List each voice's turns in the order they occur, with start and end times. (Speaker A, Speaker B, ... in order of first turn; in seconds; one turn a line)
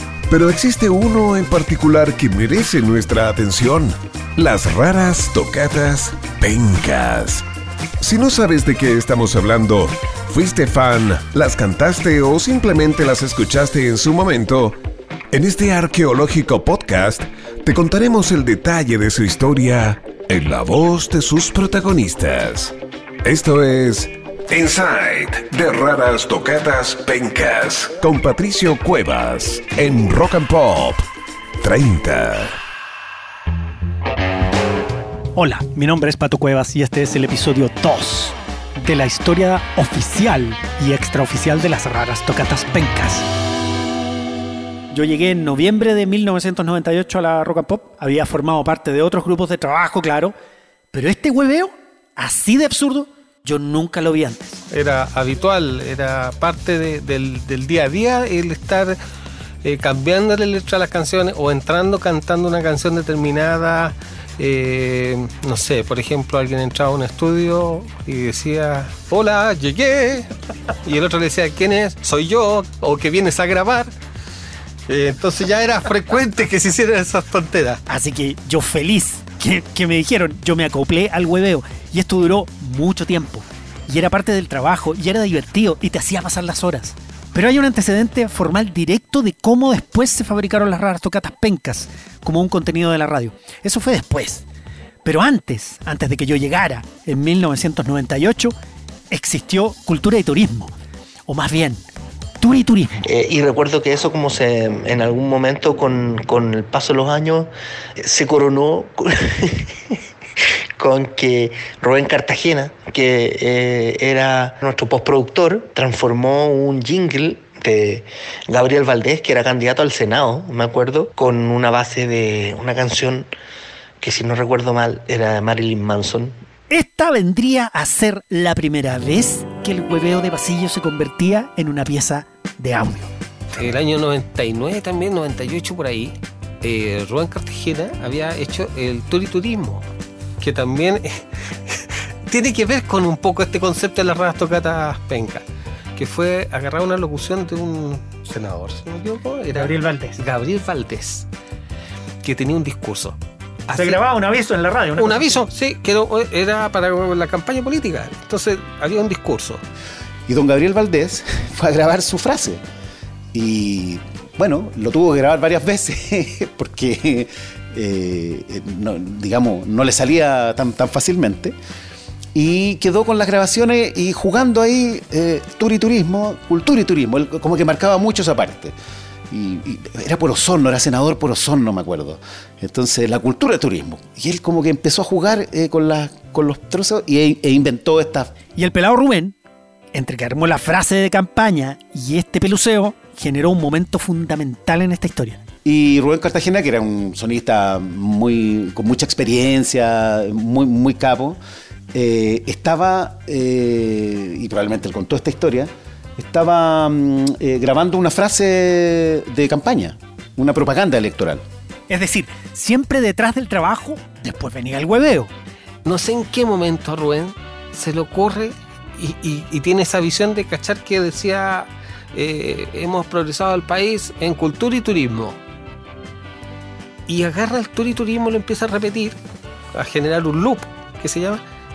Speaker A: 0.3-7.5
Speaker A: 8.0-14.8
Speaker A: 15.3-31.0
Speaker A: 31.6-32.6
Speaker B: 35.4-43.3
Speaker B: 44.9-50.3
Speaker B: 50.9-54.6
Speaker C: 54.7-59.0
Speaker C: 59.6-70.3
Speaker C: 70.8-73.9
Speaker C: 74.9-77.8
Speaker B: 77.9-94.5
Speaker B: 95.0-98.5
Speaker B: 99.1-100.7
Speaker B: 101.3-101.8
Speaker B: 102.4-102.9
Speaker D: 103.0-110.0
Speaker D: 110.8-123.3
Speaker D: 124.0-126.4
Speaker B: 126.7-133.1
Speaker C: 133.6-139.9
Speaker C: 140.4-145.4
Speaker C: 146.0-151.3
Speaker B: 149.5-150.2
Speaker C: 152.2-154.0
Speaker B: 153.7-155.4
Speaker C: 155.0-159.6
Speaker E: 160.3-162.6
Speaker E: 163.3-171.6
Speaker E: 172.3-178.8
Speaker E: 179.3-188.3
Speaker B: 188.6-189.4
Speaker B: 189.9-195.4
Speaker E: 195.7-201.4
Speaker E: 201.9-211.4
Speaker B: 211.9-215.3
Speaker C: 215.8-225.4
Speaker C: 227.1-229.2
Speaker C: 229.7-231.4